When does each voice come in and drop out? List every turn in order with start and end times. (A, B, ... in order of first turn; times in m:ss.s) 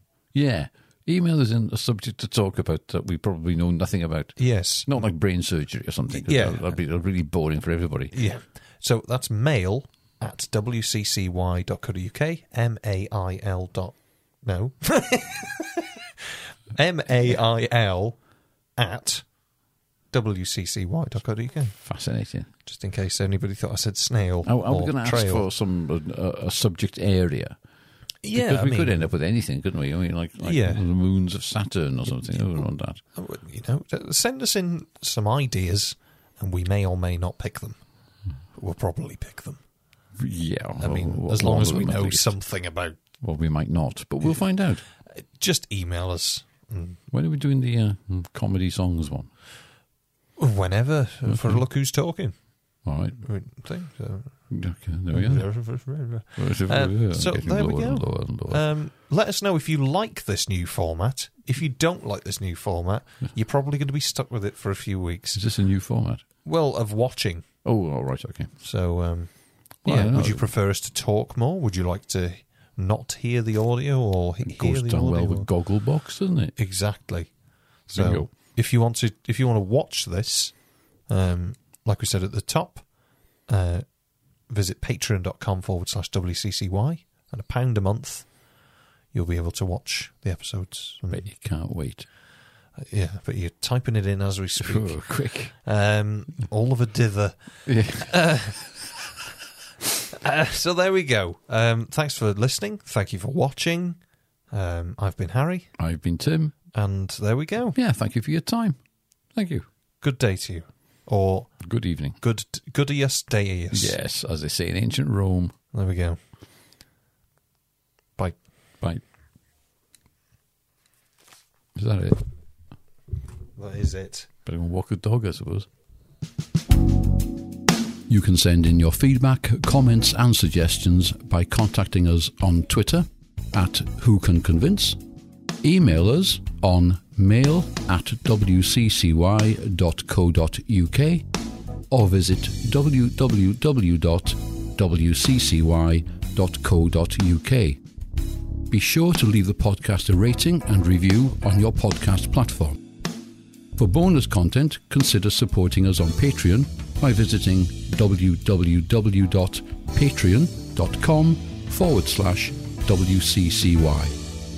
0:00.3-0:08.2 A
0:04.4-0:05.1 B
0:06.1-0:06.8 B
0:08.1-0:15.8 B
0:16.7-0:19.5 B
0:20.1-0:21.8 B
0:21.7-0:22.5 A
0:22.6-0:25.5 B
0:24.4-0:27.6 A
0:28.2-0:29.1 B
0:28.3-0:33.0 A
0:30.4-0:30.9 B
0:32.2-0:39.6 B
0:40.2-0:42.4 A
0:40.8-0:43.0 B
0:43.2-0:44.9 A
0:44.2-0:47.0 B
0:47.1-0:49.3 A
0:50.4-1:05.5 B
0:51.2-0:51.7 A
0:52.8-0:53.3 A
0:54.5-0:58.7 A
1:05.3-1:06.2 A
1:06.4-1:07.6 B
1:07.6-1:08.6 A
1:08.6-1:15.5 B
1:09.8-1:10.5 A
1:14.4-1:16.6 A
1:16.6-1:28.6 B
1:17.9-1:18.3 A
1:29.1-1:31.3 B
1:31.1-1:32.1 A
1:32.8-1:38.9 B
1:34.6-1:35.5 A
1:37.7-1:38.5 A
1:40.2-1:45.8 B
1:45.8-1:46.6 A
1:46.7-1:47.8 B
1:47.7-1:48.8 A
1:49.3-1:49.7 A
1:50.0-1:54.0 B
1:51.6-1:52.2 A
1:53.7-1:55.6 A
1:55.7-1:56.2 B
2:01.8-2:02.2 A
2:03.6-2:04.3 B
2:04.4-2:05.7 A
2:08.1-2:15.0 A
2:15.6-2:21.3 A
2:21.9-2:27.8 A
2:28.7-2:32.9 A
2:33.8-2:44.2 A